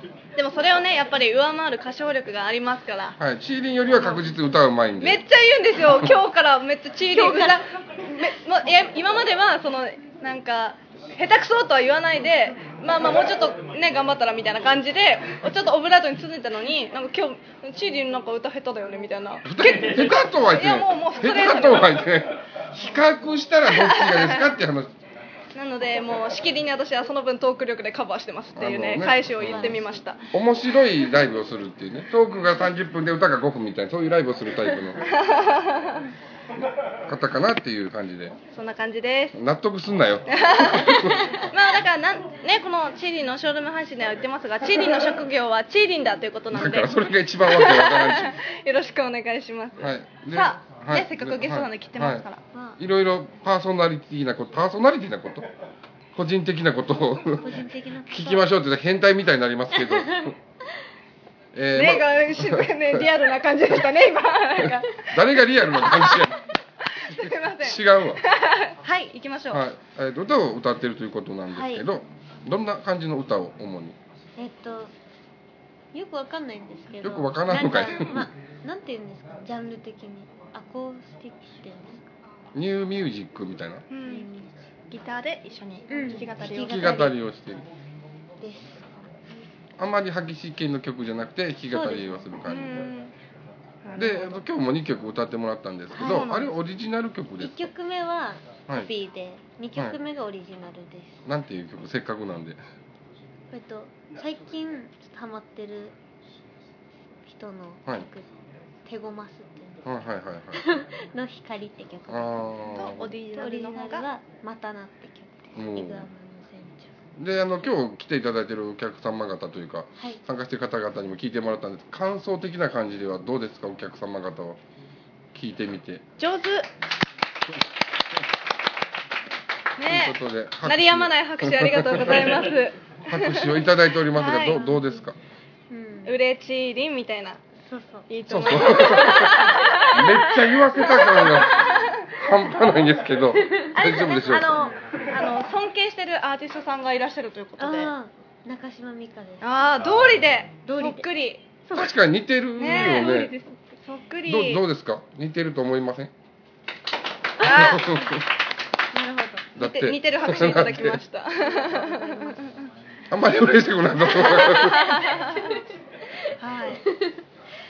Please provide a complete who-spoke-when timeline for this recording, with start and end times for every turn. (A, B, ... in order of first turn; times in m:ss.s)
0:00.4-0:03.2 A
0:03.2-0:05.2 B
0:05.0-0:22.0 A
0:07.1-0:07.6 C
0:19.4-0:24.9 B
0:23.7-0:24.5 A
0:25.5-0:30.3 A
0:28.6-0:29.6 B
0:29.4-0:29.9 C
0:30.3-0:35.0 B
0:35.1-0:36.0 A
0:37.1-0:38.4 B
0:38.5-0:39.3 A
0:39.3-0:41.4 B
0:40.3-0:52.4 A
0:46.5-0:48.4 B
0:49.8-0:52.2 B
0:52.5-0:52.8 C
0:52.8-0:55.5 B
0:56.1-1:00.3 B
0:57.4-0:58.5 C
0:59.9-1:00.3 C
1:01.5-1:03.0 B
1:01.7-1:05.1 A
1:04.6-1:06.5 B
1:05.7-1:06.3 A
1:06.9-1:09.6 A
1:07.1-1:08.2 B
1:09.5-1:14.0 B
1:11.5-1:11.8 C
1:14.4-1:14.9 C
1:15.9-1:22.2 C
1:17.0-1:18.3 B
1:22.5-1:23.8 B
1:23.9-1:24.3 A
1:24.0-1:24.5 C
1:24.9-1:27.1 A
1:25.9-1:27.1 C
1:26.6-1:27.6 B
1:28.4-1:29.0 C
1:29.8-1:32.9 B
1:31.7-1:32.2 C
1:32.4-1:33.1 A
1:33.8-1:34.4 A
1:34.0-1:37.6 B
1:35.9-1:36.3 C
1:36.0-1:36.5 A
1:37.4-1:41.2 C
1:41.2-1:42.6 B
1:43.5-1:45.9 C
1:47.2-1:48.3 C
1:48.8-1:49.9 C
1:49.8-1:50.6 B
1:50.5-1:56.9 C
1:52.1-1:53.1 B
1:52.7-1:54.0 A
1:55.5-1:56.1 B
1:57.2-2:04.6 B
2:05.3-2:06.0 B
2:06.2-2:06.7 A
2:09.8-2:13.5 A
2:09.8-2:12.4 B
2:13.1-2:15.2 B
2:14.1-2:14.7 A
2:14.6-2:14.9 C
2:15.7-2:16.2 C
2:16.0-2:17.4 A
2:17.6-2:18.1 C
2:18.1-2:22.0 A
2:18.3-2:24.6 B
2:23.4-2:23.8 C
2:23.7-2:27.9 A
2:24.5-2:25.0 C
2:27.6-2:29.5 C
2:29.4-2:31.4 A
2:30.6-2:31.1 C
2:31.7-2:31.9 C
2:31.7-2:33.3 B
2:32.6-2:34.6 A
2:32.6-2:33.2 C
2:34.2-2:36.1 B
2:37.4-2:38.0 A
2:37.4-2:38.2 B
2:37.4-2:37.8 C
2:38.9-2:39.5 C
2:39.6-2:41.0 B
2:39.6-2:42.5 A
2:41.7-2:42.3 C
2:43.1-2:45.1 B
2:44.2-2:45.5 A
2:46.4-2:46.8 A